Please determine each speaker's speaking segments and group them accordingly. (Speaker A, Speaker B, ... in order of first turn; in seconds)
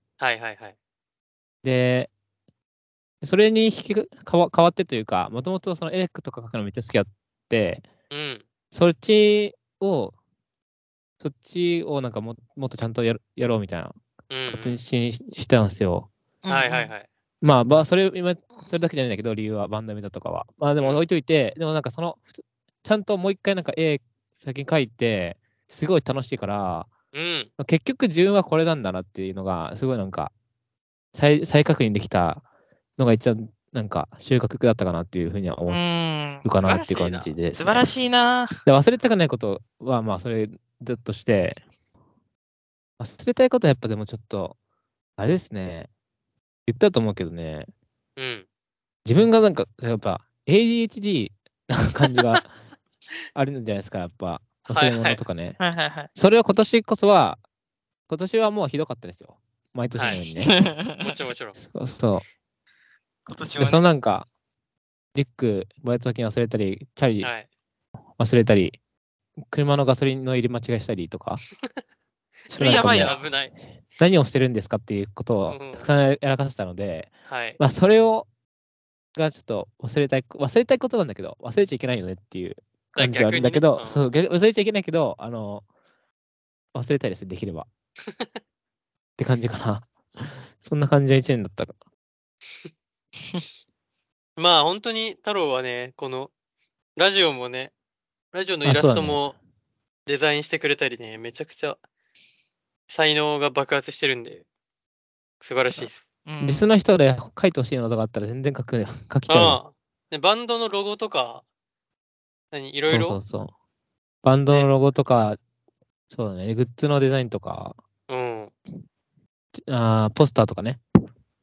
Speaker A: 0.2-0.8, 8.1-8.5, 14.3-14.8, 16.5-17.1, 20.8-21.0, 27.1-27.5, 36.6-37.3, 48.2-48.5, 54.7-55.2, 60.0-60.2, 61.0-61.6, 67.2-67.5, 72.6-73.5, 75.5-75.9, 77.3-77.6, 83.0-84.0, 94.4-96.3, 97.0-97.7, 98.3-99.4, 100.1-101.8, 102.9-104.4, 105.4-106.0, 109.3-111.4, 112.5-113.2, 118.1-118.5
Speaker B: 1.6-2.1, 3.2-7.8, 8.7-10.1, 11.2-14.0, 14.5-16.1, 17.4-26.9, 27.6-30.3, 31.1-32.4, 33.0-35.8, 36.4-37.9, 38.6-41.6, 43.0-44.6, 45.2-45.9, 46.7-47.7, 49.0-52.5, 53.4-55.6, 56.1-57.4, 58.1-60.5, 61.6-62.2, 63.6-64.3, 65.2-67.3, 68.2-68.8, 69.4-71.4, 72.6-78.3, 79.2-85.7, 86.7-87.7, 89.2-89.9, 90.6-91.8, 98.6-99.3, 106.4-109.6, 112.8-113.5, 114.2-115.4, 116.1-117.8, 119.6-120.8
Speaker C: 16.4-16.9, 35.7-36.5, 37.5-38.5, 55.6-56.1, 60.4-61.1, 63.3-63.8, 72.5-73.2, 106.3-106.7